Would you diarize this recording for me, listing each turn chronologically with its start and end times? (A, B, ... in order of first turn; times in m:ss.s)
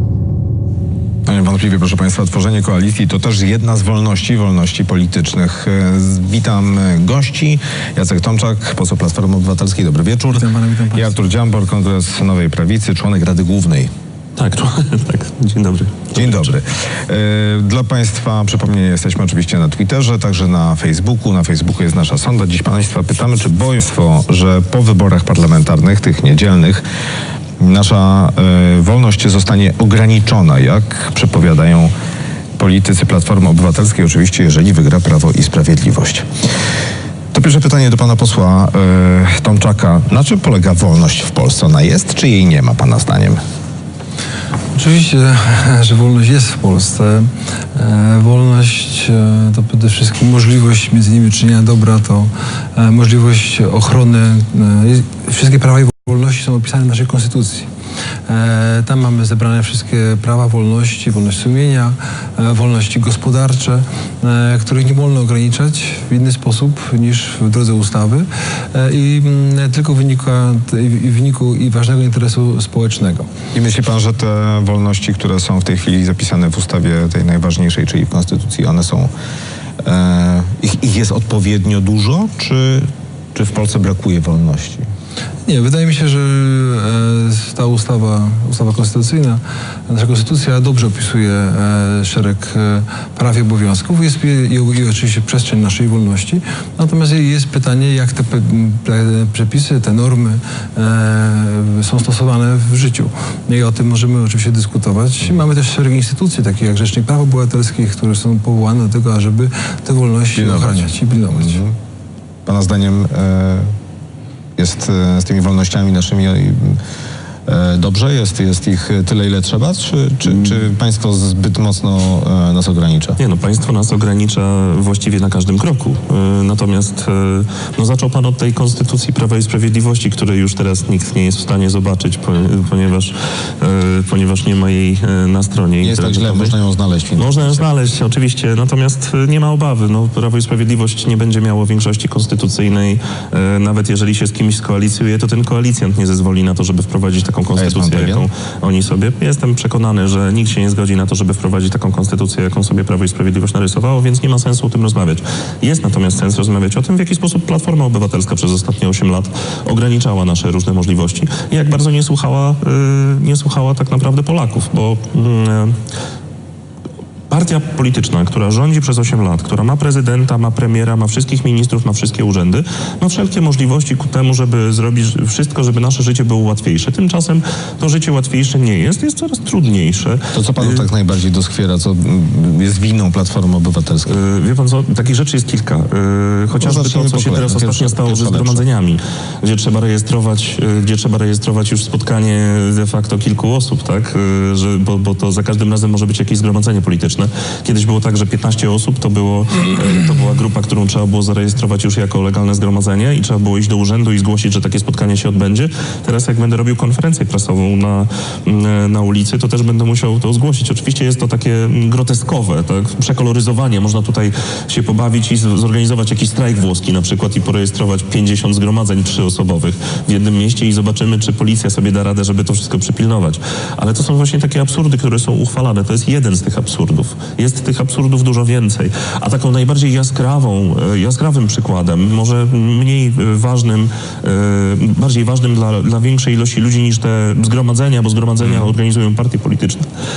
0:01.2-0:13.9 A
0:10.3-0:11.2 B
0:14.4-0:16.5 C
0:16.1-0:26.8 A
0:27.6-0:31.9 A
0:32.6-0:36.2 A
0:37.3-0:43.4 A
0:44.7-0:57.7 B
0:58.3-1:13.3 B
1:13.5-1:19.1 A
1:19.8-1:24.8 A
1:25.4-1:51.6 B
1:50.3-1:51.7 A
1:52.4-1:53.7 A
1:54.6-1:56.8 A
1:57.4-2:03.2 A
2:00.3-2:00.6 C
2:03.2-2:16.5 C
2:15.8-2:17.6 A
2:17.2-2:45.8 C
2:27.5-2:28.3 A
2:47.3-3:00.8 C
3:00.3-3:04.2 A
3:04.1-3:59.8 C
3:06.6-3:08.6 A
3:58.4-3:58.7 A